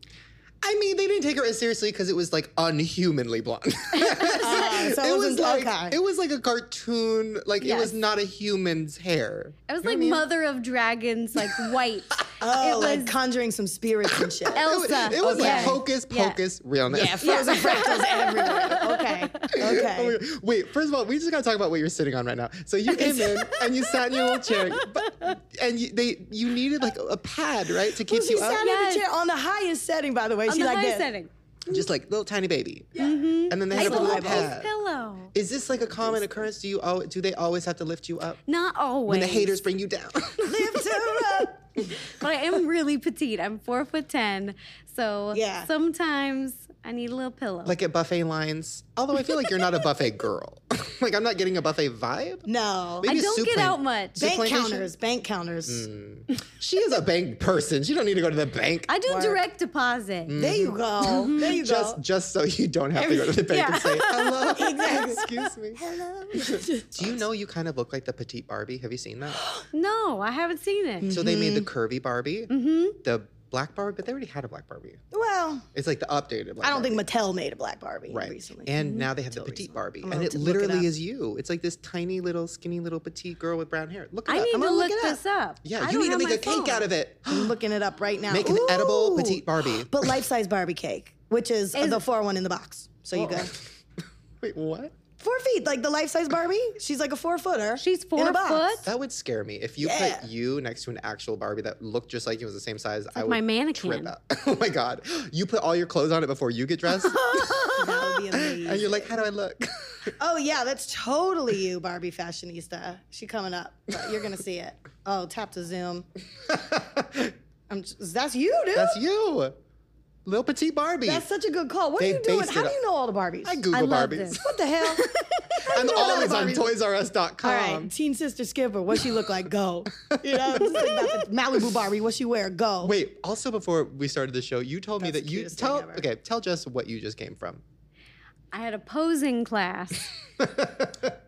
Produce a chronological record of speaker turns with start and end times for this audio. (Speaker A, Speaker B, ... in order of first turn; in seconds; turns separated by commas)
Speaker A: 0.6-10.2, Speaker B: 4.0-4.6, Speaker C: 4.4-6.0, Speaker B: 7.6-7.9, Speaker B: 9.7-13.1, Speaker A: 11.4-11.7, Speaker C: 12.4-15.8, Speaker A: 14.2-17.7, Speaker B: 14.5-16.4, Speaker C: 16.9-20.2, Speaker B: 17.2-19.5, Speaker A: 19.5-28.7, Speaker C: 22.9-23.5, Speaker B: 23.6-25.3, Speaker C: 28.0-31.1, Speaker B: 28.4-29.1, Speaker B: 30.5-31.3, Speaker A: 31.7-34.7, Speaker B: 33.0-35.3, Speaker C: 33.7-34.5, Speaker A: 35.3-38.4, Speaker B: 38.5-39.5, Speaker A: 39.1-40.8, Speaker C: 40.4-41.7, Speaker B: 40.6-41.4, Speaker B: 42.0-47.8, Speaker C: 45.3-45.7, Speaker A: 47.6-52.5, Speaker C: 52.5-53.1, Speaker A: 53.0-54.9, Speaker B: 53.0-54.3, Speaker C: 54.2-55.9, Speaker A: 55.7-58.9, Speaker B: 58.9-60.4, Speaker C: 59.1-59.4, Speaker A: 60.3-69.5, Speaker C: 60.4-62.0, Speaker B: 63.3-65.1, Speaker C: 64.5-67.2, Speaker C: 69.4-69.7, Speaker B: 69.7-71.1, Speaker C: 71.0-71.7, Speaker A: 71.1-75.0, Speaker B: 72.5-73.0, Speaker C: 75.1-75.7, Speaker A: 75.7-77.0, Speaker C: 76.6-80.9, Speaker A: 78.1-84.6, Speaker B: 78.8-79.1, Speaker B: 84.3-86.9, Speaker C: 84.4-85.2, Speaker A: 85.6-87.6, Speaker C: 87.3-93.5, Speaker A: 88.3-90.1, Speaker B: 91.7-92.0, Speaker A: 93.1-93.6, Speaker A: 94.4-94.9, Speaker C: 95.2-98.8, Speaker B: 97.8-98.9, Speaker A: 98.8-107.7, Speaker C: 99.8-100.3, Speaker B: 103.2-104.1, Speaker B: 107.0-108.1, Speaker C: 107.8-109.2, Speaker A: 108.4-110.1, Speaker C: 110.2-116.1, Speaker A: 116.5-117.3, Speaker C: 117.7-119.0, Speaker A: 118.8-119.6, Speaker A: 120.2-121.2, Speaker C: 121.0-123.7, Speaker A: 122.0-122.8, Speaker A: 123.4-124.5, Speaker B: 123.7-124.4, Speaker C: 124.3-125.1, Speaker B: 124.9-126.2, Speaker C: 125.6-126.7, Speaker A: 125.7-127.9, Speaker C: 127.4-132.9, Speaker A: 130.3-130.9, Speaker A: 132.8-137.6, Speaker C: 135.0-136.1, Speaker B: 138.5-140.1, Speaker A: 140.4-141.1